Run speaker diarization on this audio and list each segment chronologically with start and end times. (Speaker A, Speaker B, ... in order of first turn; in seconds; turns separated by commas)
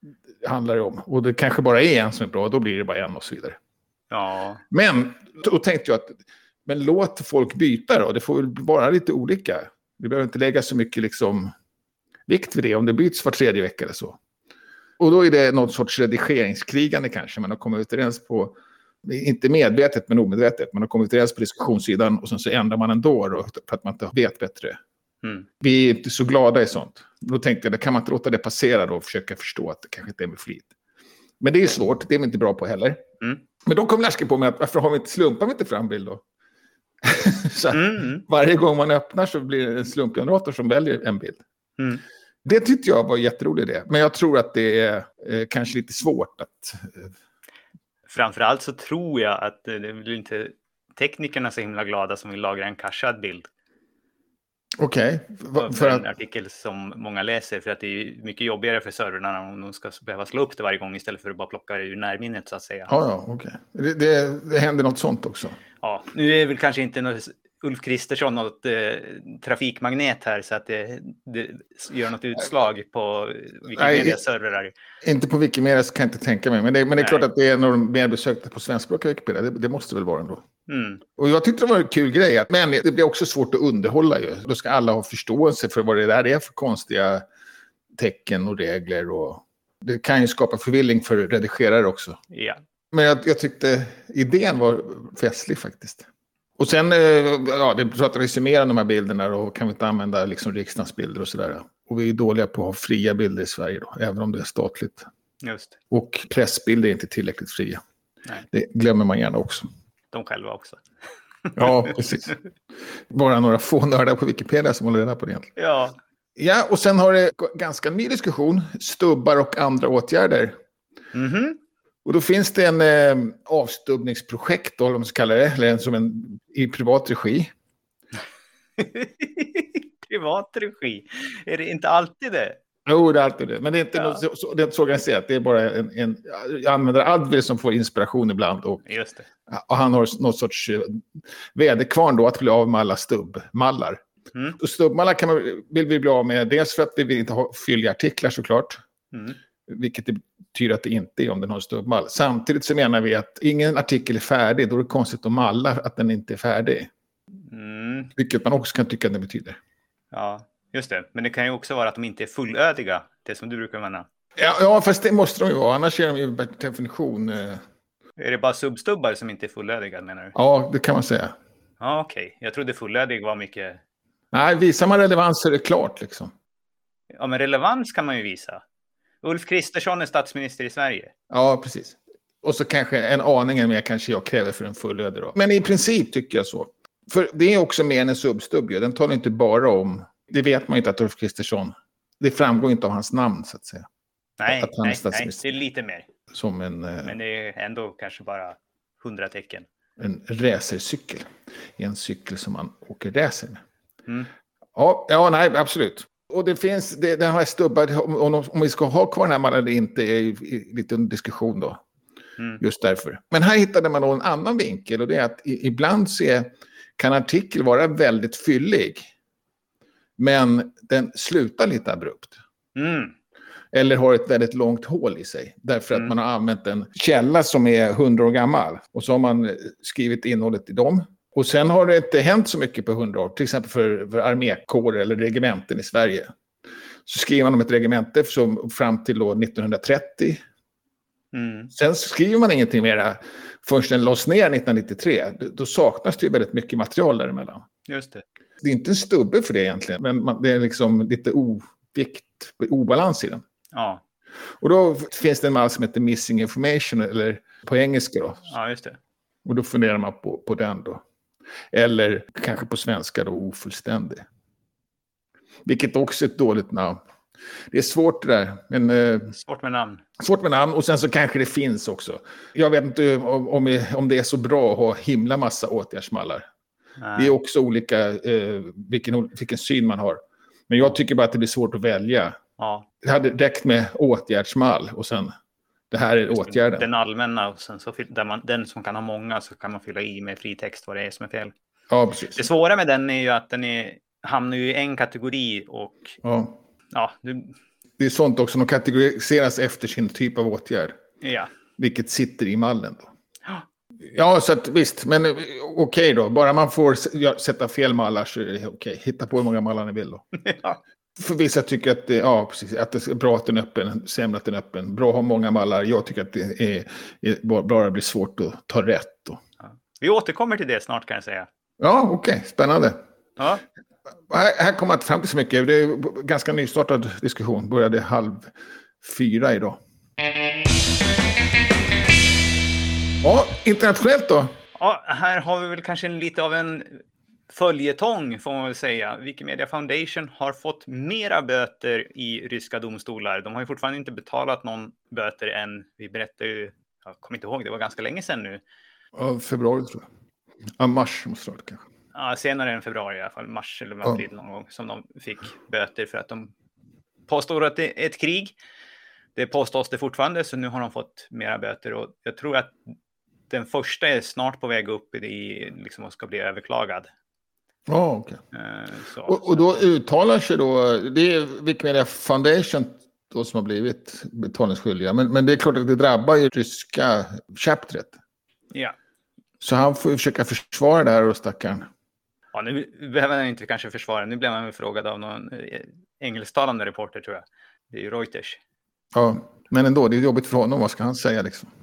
Speaker A: 0.4-3.6, Speaker B: 4.1-4.6, Speaker A: 4.7-11.5, Speaker A: 12.3-14.2, Speaker A: 15.0-24.8, Speaker A: 25.6-30.7, Speaker A: 31.4-33.0, Speaker A: 33.6-36.2, Speaker A: 37.0-41.4, Speaker B: 37.7-38.2, Speaker B: 41.8-42.0, Speaker A: 42.4-47.1, Speaker B: 48.1-53.5, Speaker A: 54.8-56.0, Speaker B: 55.5-62.9, Speaker A: 62.9-65.6, Speaker B: 65.8-74.7, Speaker A: 73.8-74.2, Speaker A: 75.0-80.4, Speaker B: 77.0-77.2, Speaker B: 80.7-81.0, Speaker A: 81.2-87.2, Speaker A: 88.0-92.2, Speaker B: 92.3-92.6, Speaker A: 92.9-96.0, Speaker A: 96.6-105.1, Speaker B: 105.4-105.8, Speaker A: 105.9-107.8, Speaker A: 108.5-109.7, Speaker B: 110.1-110.8, Speaker B: 111.4-112.0, Speaker A: 111.5-112.4, Speaker A: 113.1-115.5, Speaker B: 115.5-116.0, Speaker A: 116.3-120.5, Speaker B: 121.1-121.6, Speaker A: 122.0-127.5, Speaker B: 128.8-132.6, Speaker A: 132.8-138.8, Speaker B: 138.8-139.3, Speaker A: 139.5-144.0, Speaker A: 144.6-148.8, Speaker B: 149.1-149.4, Speaker A: 149.7-156.9, Speaker B: 157.5-158.1, Speaker A: 158.2-159.6, Speaker B: 160.1-164.1, Speaker A: 164.4-167.6, Speaker B: 168.2-170.3, Speaker A: 170.3-171.3, Speaker B: 171.8-173.8, Speaker A: 174.3-176.3, Speaker B: 177.1-178.6, Speaker B: 179.2-181.1, Speaker A: 181.3-193.9, Speaker B: 194.4-196.1, Speaker A: 194.4-195.4, Speaker A: 196.3-197.1, Speaker B: 197.0-199.7, Speaker A: 200.0-203.6, Speaker A: 204.7-211.8, Speaker A: 212.6-219.1, Speaker A: 220.2-222.3, Speaker B: 222.7-223.1, Speaker A: 223.7-236.3, Speaker A: 237.1-240.4, Speaker B: 241.3-241.7, Speaker A: 241.7-247.7, Speaker B: 247.9-248.2, Speaker A: 248.6-253.4, Speaker B: 253.7-254.0, Speaker A: 254.6-258.5, Speaker B: 258.5-259.0, Speaker A: 259.4-261.0, Speaker A: 261.7-264.2, Speaker A: 265.6-267.0, Speaker A: 267.7-269.4, Speaker B: 269.4-270.0, Speaker A: 270.2-276.4, Speaker B: 277.0-277.4, Speaker A: 277.1-282.4, Speaker B: 282.6-282.9, Speaker A: 283.0-285.3, Speaker A: 285.9-286.9, Speaker B: 286.3-291.5, Speaker A: 291.9-292.5, Speaker B: 292.3-296.1, Speaker A: 296.2-296.6, Speaker B: 296.9-297.5, Speaker A: 298.0-301.0, Speaker B: 301.2-301.5, Speaker A: 301.8-303.1, Speaker A: 304.1-310.2, Speaker B: 310.4-310.8, Speaker A: 311.2-319.4, Speaker B: 319.6-321.5, Speaker A: 321.8-323.0, Speaker B: 323.4-323.6, Speaker A: 324.3-329.8, Speaker A: 333.2-334.6, Speaker B: 334.8-348.6, Speaker A: 349.1-350.1, Speaker A: 350.8-351.8, Speaker B: 352.1-356.5, Speaker B: 357.3-358.5, Speaker B: 359.3-362.8, Speaker B: 363.5-367.1, Speaker A: 367.9-368.4, Speaker B: 368.5-369.8, Speaker A: 369.2-378.2, Speaker A: 379.6-381.9, Speaker B: 382.5-388.6, Speaker A: 389.1-391.7